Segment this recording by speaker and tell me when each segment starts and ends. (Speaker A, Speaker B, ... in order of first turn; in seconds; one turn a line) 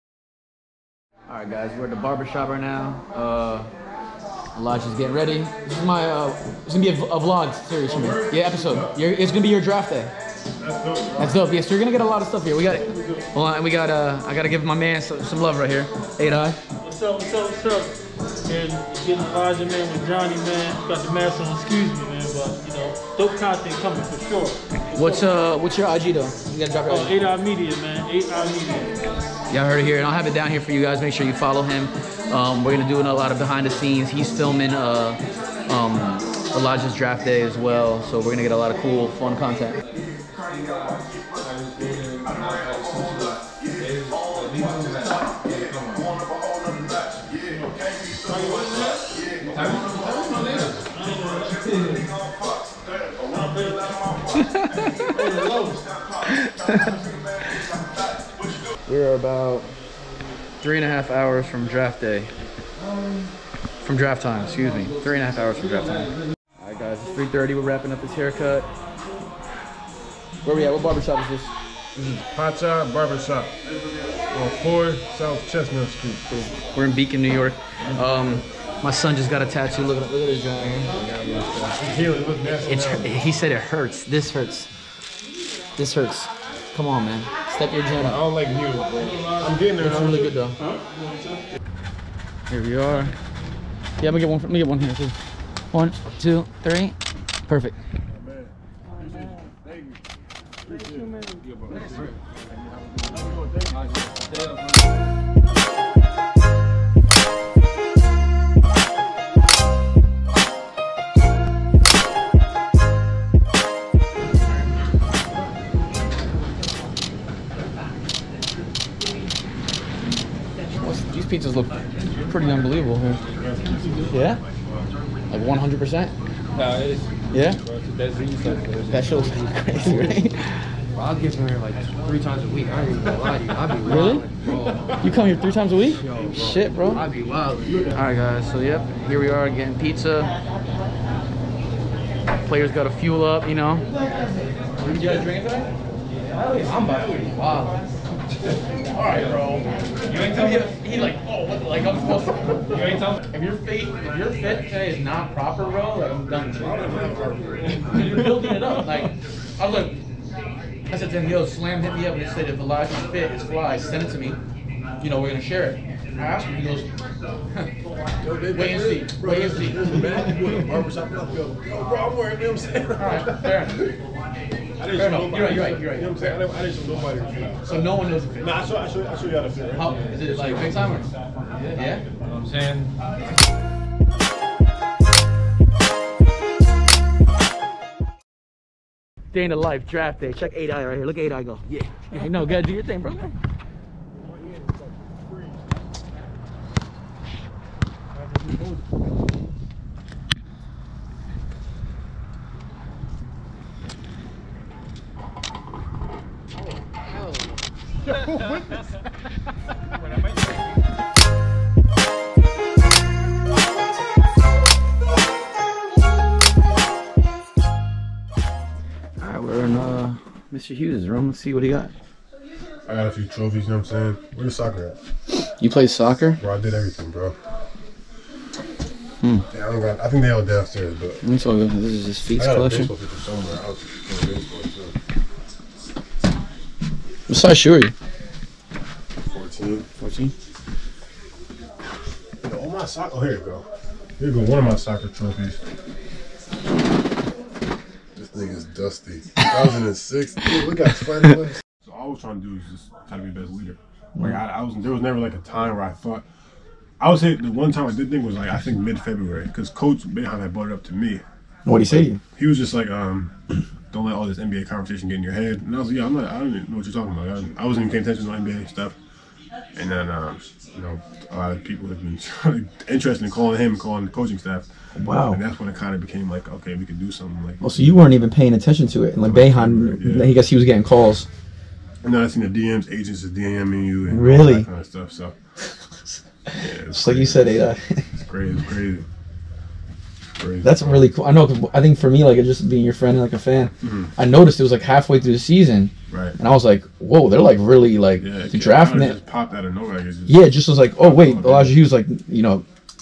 Speaker A: 1.3-3.7
Speaker A: 4.5-10.1
Speaker B: 7.9-8.9
Speaker B: 10.6-11.4
Speaker A: 11.2-16.6
Speaker C: 12.7-13.3
Speaker C: 16.8-25.3
Speaker A: 24.9-27.2
Speaker C: 26.9-29.0
Speaker A: 29.5-39.8
Speaker D: 40.6-46.2
Speaker C: 48.3-49.1
Speaker D: 49.5-50.9
Speaker C: 51.0-52.0
Speaker C: 53.4-54.2
Speaker A: 54.3-55.1
Speaker C: 55.1-55.9
Speaker A: 56.3-56.9
Speaker A: 58.9-59.7
Speaker A: 60.6-62.3
Speaker A: 63.8-68.7
Speaker A: 70.4-72.2
Speaker B: 72.3-73.5
Speaker B: 74.3-76.4
Speaker A: 76.6-80.9
Speaker B: 80.9-83.2
Speaker A: 82.6-84.7
Speaker A: 85.8-88.2
Speaker B: 88.0-90.5
Speaker A: 89.8-90.6
Speaker A: 92.5-93.1
Speaker A: 94.0-95.2
Speaker A: 95.7-97.0
Speaker A: 97.5-97.8
Speaker B: 98.1-100.0
Speaker B: 100.6-102.1
Speaker B: 103.0-104.1
Speaker A: 120.7-123.2
Speaker B: 123.6-124.0
Speaker A: 124.1-124.4
Speaker A: 125.3-126.1
Speaker D: 126.6-127.1
Speaker A: 127.3-127.6
Speaker D: 127.7-129.2
Speaker A: 128.9-130.7
Speaker D: 131.0-134.9
Speaker A: 133.8-134.3
Speaker A: 135.0-137.1
Speaker D: 136.0-137.8
Speaker A: 137.9-140.3
Speaker A: 142.4-143.9
Speaker A: 144.8-145.7
Speaker A: 146.3-147.8
Speaker A: 148.9-156.9
Speaker B: 156.6-157.8
Speaker A: 157.8-160.0
Speaker A: 160.9-164.4
Speaker A: 165.0-166.9
Speaker B: 168.2-173.5
Speaker A: 168.5-170.1
Speaker A: 173.0-173.9
Speaker B: 174.8-179.9
Speaker A: 174.9-176.3
Speaker A: 177.7-178.7
Speaker A: 179.8-181.1
Speaker D: 181.3-182.9
Speaker A: 181.7-182.1
Speaker A: 189.3-193.4
Speaker C: 198.4-198.6
Speaker A: 219.2-221.9
Speaker B: 222.9-225.0
Speaker A: 225.4-226.4
Speaker B: 226.4-227.4
Speaker B: 229.5-231.2
Speaker A: 231.2-232.9
Speaker B: 232.4-234.9
Speaker A: 237.3-237.9
Speaker B: 239.3-239.9
Speaker A: 240.0-240.3
Speaker B: 242.4-243.7
Speaker B: 244.2-245.6
Speaker B: 248.2-256.2
Speaker B: 257.0-261.2
Speaker A: 261.7-262.2
Speaker B: 261.9-269.0
Speaker B: 269.8-274.7
Speaker A: 275.0-275.4
Speaker B: 275.3-277.6
Speaker A: 277.6-281.3
Speaker B: 279.2-280.3
Speaker B: 282.0-285.4
Speaker A: 284.1-284.7
Speaker A: 286.1-288.1
Speaker B: 286.6-287.6
Speaker B: 288.1-289.1
Speaker B: 290.4-291.1
Speaker A: 290.6-299.2
Speaker B: 293.8-294.1
Speaker B: 296.1-296.4
Speaker B: 298.2-301.8
Speaker A: 300.3-302.7